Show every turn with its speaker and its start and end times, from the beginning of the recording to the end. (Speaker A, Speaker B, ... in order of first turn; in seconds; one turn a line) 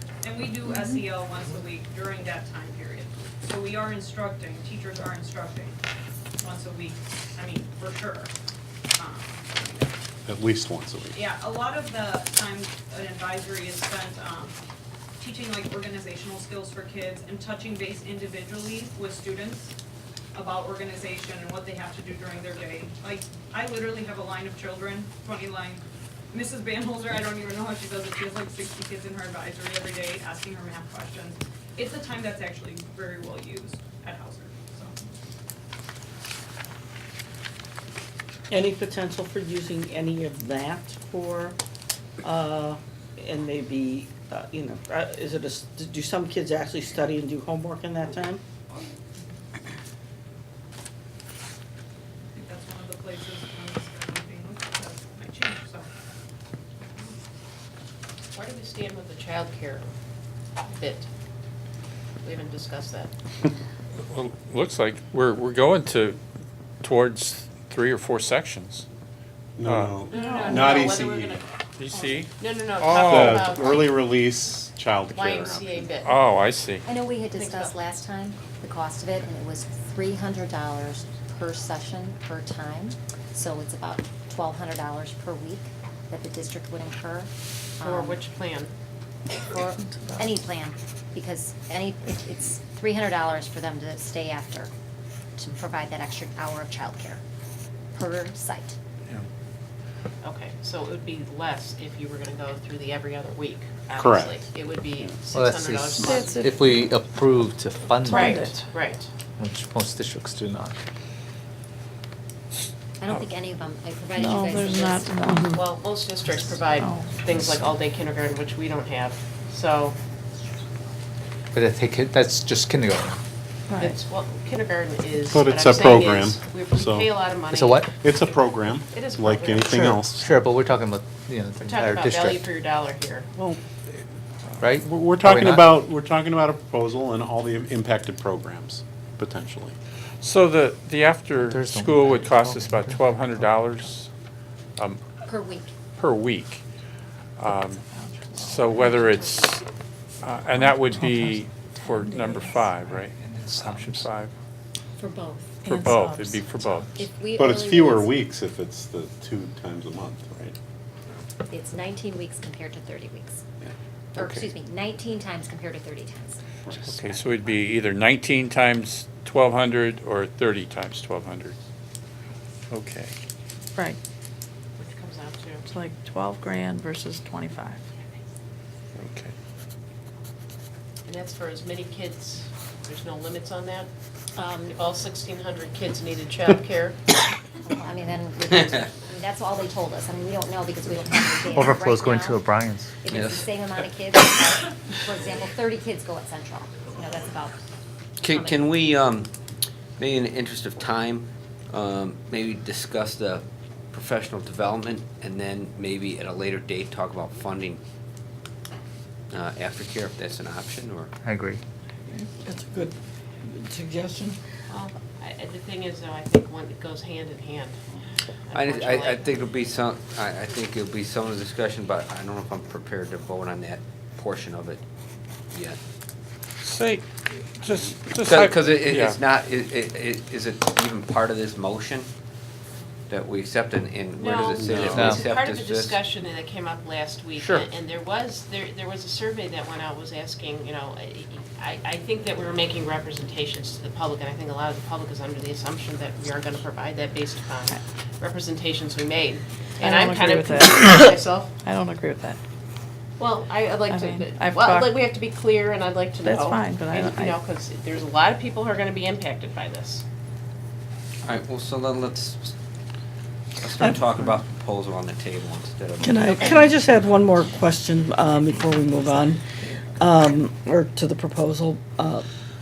Speaker A: 0.2-5.8
Speaker A: 6.4-8.3
Speaker A: 8.9-10.0
Speaker B: 10.3-11.2
Speaker A: 11.1-14.6
Speaker A: 15.2-19.8
Speaker A: 20.3-35.2
Speaker C: 38.5-41.5
Speaker C: 42.2-48.4
Speaker A: 52.3-56.0
Speaker A: 56.8-57.2
Speaker D: 58.3-59.9
Speaker D: 60.7-61.1
Speaker D: 62.2-63.1
Speaker E: 64.1-66.2
Speaker E: 66.8-68.8
Speaker B: 69.6-71.4
Speaker E: 69.6-70.1
Speaker D: 70.1-74.0
Speaker F: 70.1-70.8
Speaker E: 71.8-73.6
Speaker B: 73.0-75.9
Speaker D: 75.1-76.1
Speaker E: 76.0-76.8
Speaker G: 76.8-88.2
Speaker D: 77.3-77.8
Speaker D: 87.8-88.7
Speaker G: 89.4-94.7
Speaker G: 95.4-97.2
Speaker G: 97.9-98.8
Speaker D: 100.2-106.9
Speaker B: 104.0-104.4
Speaker H: 105.3-108.4
Speaker C: 106.0-106.4
Speaker D: 108.0-109.1
Speaker F: 108.1-108.6
Speaker H: 109.4-110.8
Speaker E: 112.5-113.2
Speaker G: 113.0-115.3
Speaker F: 114.2-115.5
Speaker C: 115.3-115.6
Speaker D: 115.5-120.0
Speaker F: 116.8-117.2
Speaker H: 121.5-123.2
Speaker F: 123.7-123.9
Speaker D: 123.8-127.9
Speaker B: 125.2-127.1
Speaker H: 127.5-127.9
Speaker B: 128.0-130.3
Speaker D: 128.9-130.0
Speaker H: 130.1-132.4
Speaker D: 131.6-133.3
Speaker B: 133.3-133.6
Speaker H: 134.6-135.8
Speaker B: 134.8-139.8
Speaker E: 140.2-144.1
Speaker H: 141.4-143.7
Speaker G: 145.2-145.7
Speaker E: 146.0-146.6
Speaker E: 147.4-147.8
Speaker F: 147.9-149.2
Speaker E: 148.3-149.6
Speaker E: 150.2-154.3
Speaker F: 150.6-152.7
Speaker H: 152.8-154.0
Speaker G: 155.0-155.5
Speaker E: 155.6-157.0
Speaker F: 155.7-156.9
Speaker G: 157.0-158.2
Speaker B: 157.4-160.6
Speaker G: 161.5-163.4
Speaker B: 163.6-164.5
Speaker G: 164.2-166.4
Speaker E: 166.9-171.5
Speaker E: 172.7-173.1
Speaker D: 174.8-175.6
Speaker F: 175.7-177.8
Speaker E: 179.0-179.3
Speaker D: 181.1-183.9
Speaker G: 184.3-184.9
Speaker D: 184.7-187.0
Speaker G: 187.7-192.5
Speaker H: 191.6-192.9
Speaker G: 193.0-197.6
Speaker I: 193.1-193.5
Speaker I: 198.2-199.3
Speaker G: 198.2-198.7
Speaker I: 200.0-207.8
Speaker I: 209.3-211.1
Speaker H: 211.2-211.6
Speaker C: 212.4-214.4
Speaker D: 214.7-217.8
Speaker D: 218.4-219.4
Speaker I: 218.5-224.8
Speaker I: 225.5-225.8
Speaker E: 226.6-229.2
Speaker I: 228.2-232.1
Speaker I: 233.1-236.0
Speaker D: 234.2-251.5
Speaker E: 237.3-237.7
Speaker F: 249.8-252.4
Speaker D: 253.2-260.0
Speaker F: 253.8-255.0
Speaker F: 256.2-257.4
Speaker I: 261.2-262.5
Speaker I: 263.6-266.7
Speaker C: 266.0-269.4
Speaker C: 270.0-272.2